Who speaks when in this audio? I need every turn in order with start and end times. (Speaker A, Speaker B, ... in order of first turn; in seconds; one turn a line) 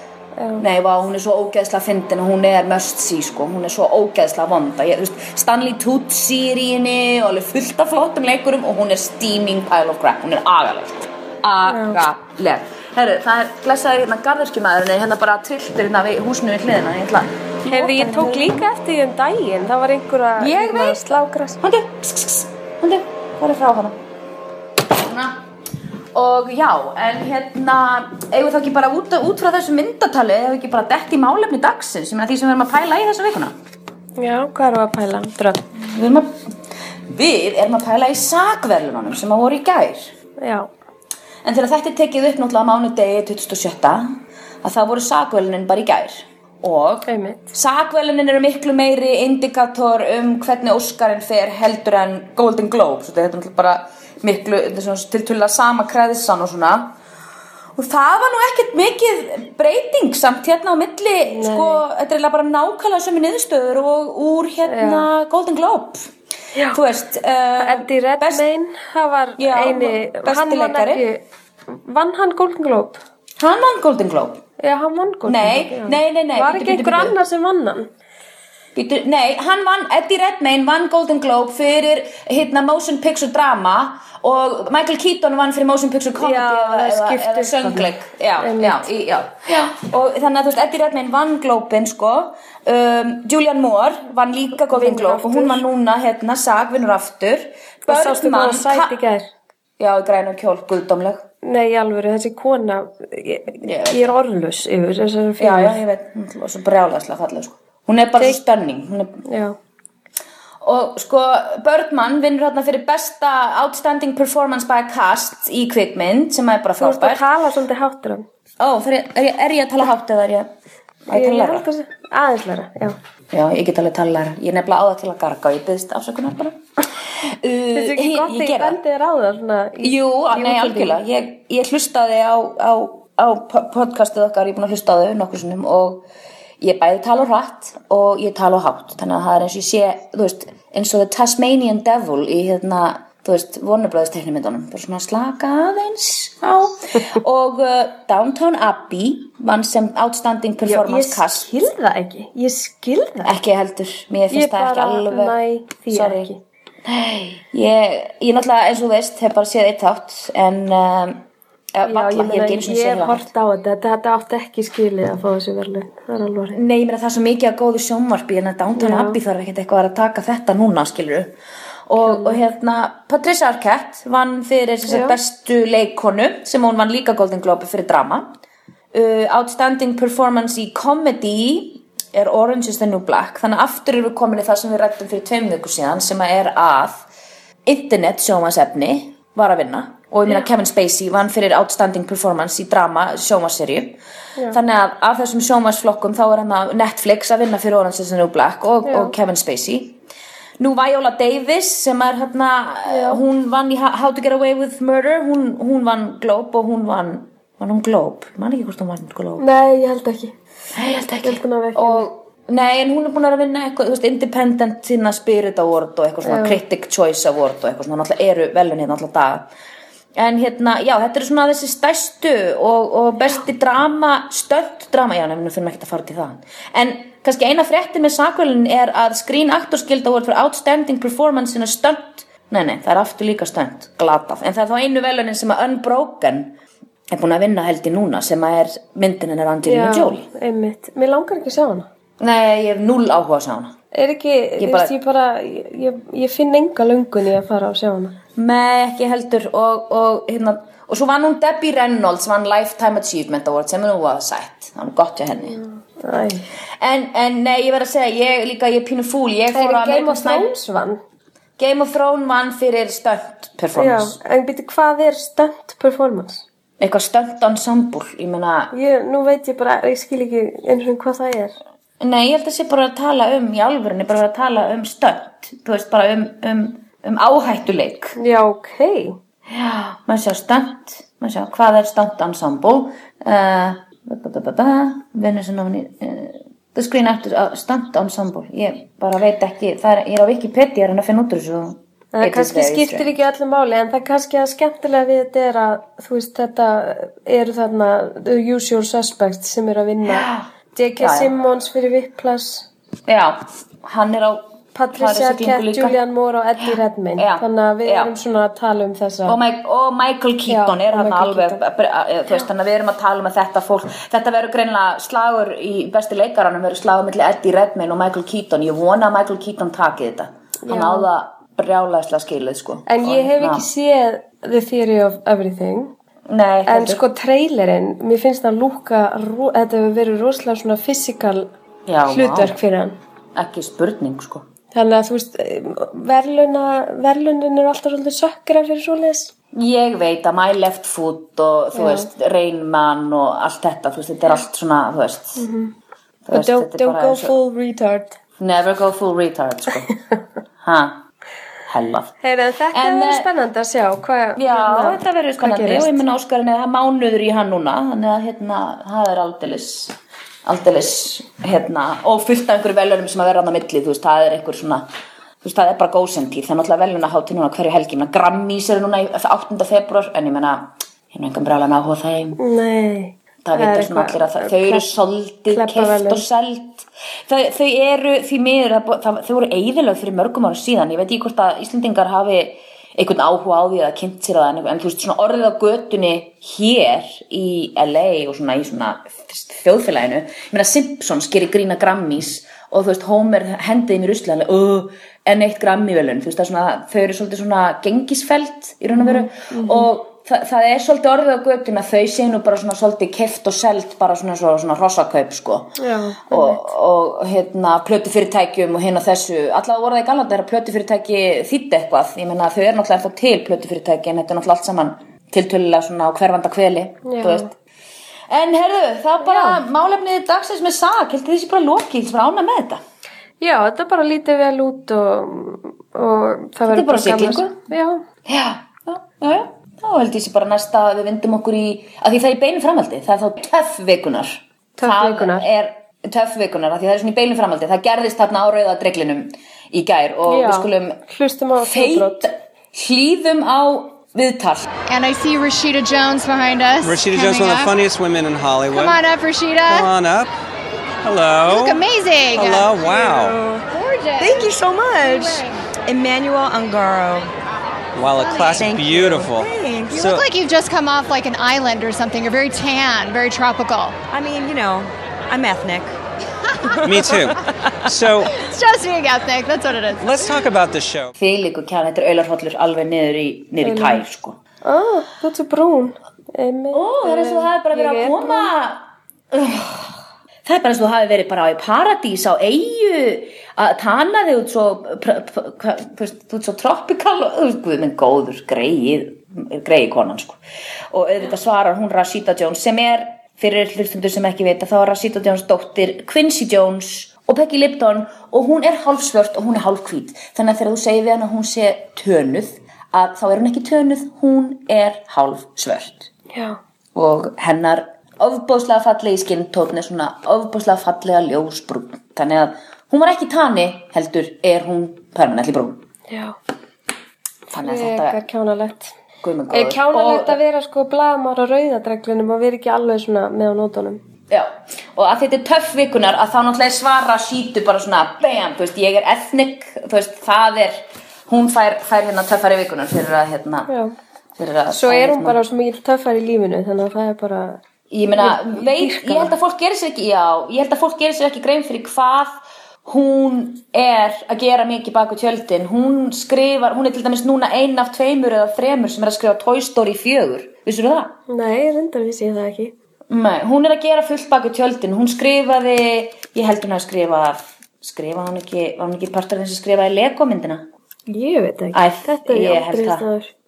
Speaker A: 0.4-0.7
Speaker B: 0.6-18.7
Speaker A: 11.7-12.0
Speaker A: 17.7-21.6
Speaker B: 20.4-21.0
Speaker B: 21.6-24.0
Speaker B: 24.9-25.4
Speaker B: 26.1-33.5
Speaker A: 34.2-35.6
Speaker B: 35.8-36.3
Speaker B: 37.1-40.1
Speaker A: 40.4-40.7
Speaker B: 41.4-44.1
Speaker B: 44.6-57.0
Speaker A: 47.1-47.5
Speaker B: 57.8-66.1
Speaker A: 61.2-61.8
Speaker A: 64.7-65.1
Speaker B: 66.7-68.4
Speaker A: 67.6-73.0
Speaker B: 69.4-71.0
Speaker B: 73.4-74.4
Speaker A: 74.6-77.9
Speaker B: 75.3-77.2
Speaker B: 78.8-99.0
Speaker A: 86.2-88.9
Speaker A: 94.7-95.6
Speaker A: 97.9-99.3
Speaker B: 99.8-101.3
Speaker A: 101.4-105.8
Speaker B: 103.6-104.1
Speaker B: 105.4-109.2
Speaker A: 109.2-109.6
Speaker B: 110.6-117.2
Speaker A: 116.8-118.3
Speaker B: 118.6-120.5
Speaker B: 121.1-121.7
Speaker A: 121.1-123.0
Speaker B: 123.3-126.6
Speaker B: 127.2-128.8
Speaker A: 127.7-131.0
Speaker B: 129.8-136.1
Speaker B: 136.6-151.5
Speaker A: 150.7-153.4
Speaker B: 153.2-155.4
Speaker A: 154.3-156.4
Speaker B: 155.9-156.3
Speaker B: 156.8-163.3
Speaker A: 161.8-166.6
Speaker B: 166.5-171.3
Speaker A: 168.8-169.2
Speaker B: 171.9-178.3
Speaker A: 172.0-172.4
Speaker A: 174.9-175.2
Speaker B: 178.9-187.1
Speaker B: 187.7-194.0
Speaker B: 194.5-200.0
Speaker A: 198.8-199.1
Speaker B: 200.6-209.5
Speaker A: 202.9-203.2
Speaker A: 209.4-210.3
Speaker B: 210.7-219.5
Speaker A: 211.2-212.1
Speaker A: 216.2-216.6
Speaker B: 220.2-236.6
Speaker B: 237.1-240.3
Speaker A: 239.6-241.9
Speaker B: 242.2-243.8
Speaker A: 243.9-248.2
Speaker B: 244.6-244.9
Speaker B: 248.4-255.6
Speaker A: 255.4-256.5
Speaker B: 256.8-260.5
Speaker A: 259.5-261.0
Speaker B: 261.6-264.2
Speaker A: 263.8-266.4
Speaker B: 266.8-268.7
Speaker A: 268.7-271.6
Speaker B: 272.0-278.2
Speaker A: 278.2-279.2
Speaker B: 279.5-293.1
Speaker A: 292.1-302.7
Speaker B: 300.0-300.5
Speaker B: 301.0-301.3
Speaker B: 303.1-306.0
Speaker A: 304.8-309.4
Speaker B: 307.2-308.1
Speaker B: 309.3-323.7
Speaker A: 310.5-311.6
Speaker A: 320.6-321.1
Speaker A: 322.9-325.9
Speaker B: 326.3-327.0
Speaker A: 326.7-331.5
Speaker B: 331.9-332.6
Speaker A: 332.1-333.0
Speaker B: 333.4-334.4
Speaker A: 334.7-339.3
Speaker B: 339.5-345.5
Speaker A: 341.7-342.1
Speaker A: 345.4-345.7
Speaker B: 346.3-347.4
Speaker A: 346.3-348.2
Speaker B: 348.4-349.9
Speaker B: 350.6-351.0
Speaker B: 351.7-352.1
Speaker A: 352.2-356.0
Speaker B: 352.7-353.3
Speaker B: 354.4-364.9
Speaker B: 365.4-372.4
Speaker A: 372.4-374.9
Speaker B: 373.4-405.8
Speaker A: 375.5-376.2
Speaker A: 398.9-399.9
Speaker A: 405.8-406.7
Speaker B: 406.3-417.5
Speaker A: 417.1-417.5
Speaker B: 418.3-422.8
Speaker A: 419.2-419.6
Speaker A: 423.4-428.0
Speaker B: 426.7-427.5
Speaker B: 428.3-441.0
Speaker A: 434.8-435.5
Speaker A: 440.3-442.3
Speaker B: 441.6-444.7
Speaker C: 444.9-447.8
Speaker D: 446.8-449.0
Speaker C: 448.7-449.9
Speaker D: 449.7-450.3
Speaker D: 451.0-451.8
Speaker C: 451.4-452.8
Speaker D: 452.3-453.4
Speaker E: 452.8-453.6
Speaker C: 453.7-455.6
Speaker E: 454.2-457.3
Speaker D: 458.0-460.2
Speaker E: 458.3-460.1
Speaker C: 458.3-458.6
Speaker C: 459.9-464.0
Speaker E: 464.1-466.0
Speaker E: 466.7-467.4
Speaker D: 466.8-468.4
Speaker C: 468.3-470.3
Speaker D: 470.0-471.1
Speaker B: 471.2-474.4
Speaker A: 473.6-474.1
Speaker A: 474.6-478.5
Speaker B: 476.7-479.9
Speaker B: 480.4-490.4
Speaker B: 490.9-506.1
Speaker A: 506.3-506.6
Speaker B: 506.9-515.8
Speaker A: 516.1-516.4
Speaker B: 517.5-518.2
Speaker A: 517.6-518.9
Speaker B: 519.2-520.4
Speaker A: 519.5-524.0
Speaker B: 524.3-533.7
Speaker A: 533.7-534.0
Speaker B: 534.4-535.4
Speaker A: 534.7-537.6
Speaker B: 537.9-551.1
Speaker A: 538.2-539.4
Speaker A: 551.3-552.7
Speaker B: 553.1-560.7
Speaker A: 561.1-563.3
Speaker B: 561.7-563.1